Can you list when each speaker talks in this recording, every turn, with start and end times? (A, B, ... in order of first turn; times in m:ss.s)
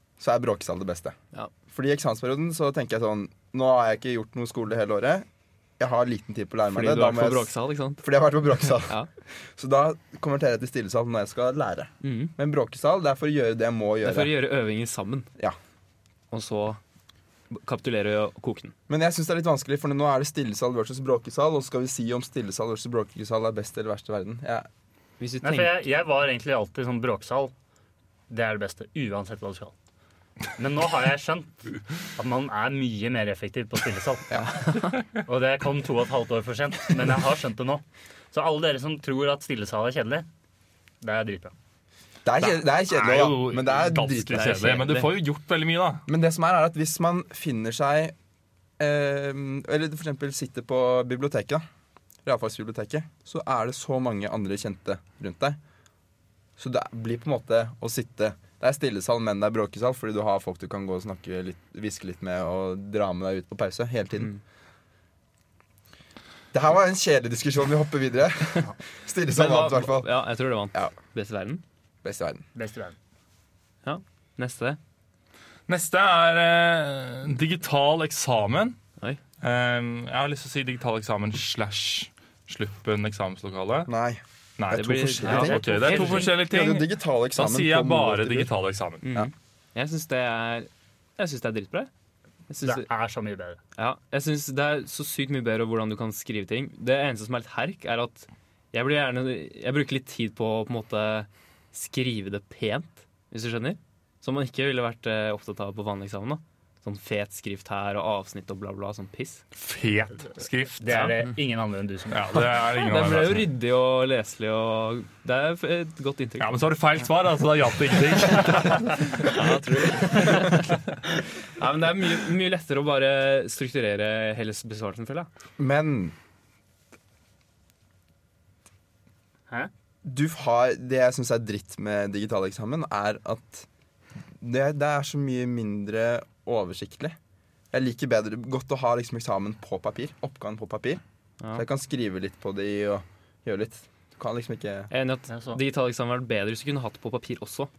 0:00.2-0:01.1 A
0:01.7-0:05.2 A
0:05.8-0:08.9 A
0:06.7-0:08.0 B
0:09.6-0:14.4 A
0:12.0-0:12.3 B
0:14.0-0:15.3 B
0:16.3-0:16.8 B
0:17.5-0:18.7 B
0:18.9-0:24.7 A
0:25.2-0:25.8 B
0:25.4-0:27.5 C
0:28.3-0:29.7 C
0:30.6-0:31.6 C
0:32.2-0:34.3 C
0:34.6-0:34.9 B
0:35.2-0:40.3 C
0:41.0-0:41.5 C
0:42.2-0:44.7 A
0:42.4-0:46.0 D
0:44.3-0:45.1 B
0:46.1-0:48.1 A
0:48.8-0:51.6 A
0:52.2-0:55.6 A
0:56.6-1:04.3 A
1:06.5-1:10.1 A
1:09.3-1:11.6 B
1:12.0-1:12.4 A
1:12.5-1:12.9 C
1:13.8-1:14.8 B
1:15.7-1:18.8 D
1:19.4-1:23.9 D
1:23.9-1:28.5 A
1:24.6-1:29.0 D
1:24.7-1:26.3 B
1:25.7-1:26.3 C
1:29.0-1:31.9 B
1:32.5-1:32.9 B
1:32.6-1:33.6 C
1:33.8-1:49.4 B
1:49.5-1:51.2 D
1:50.8-1:52.6 C
1:52.1-1:53.5 D
1:52.7-1:56.6 B
1:56.4-1:59.5 D
1:59.1-2:00.8 B
2:01.6-2:05.3 B
2:05.6-2:06.1 A
2:10.0-2:13.6 A
2:14.4-2:17.2 A
2:17.7-2:21.0 A
2:21.5-2:24.9 A
2:24.9-2:27.7 B
2:25.3-2:25.6 C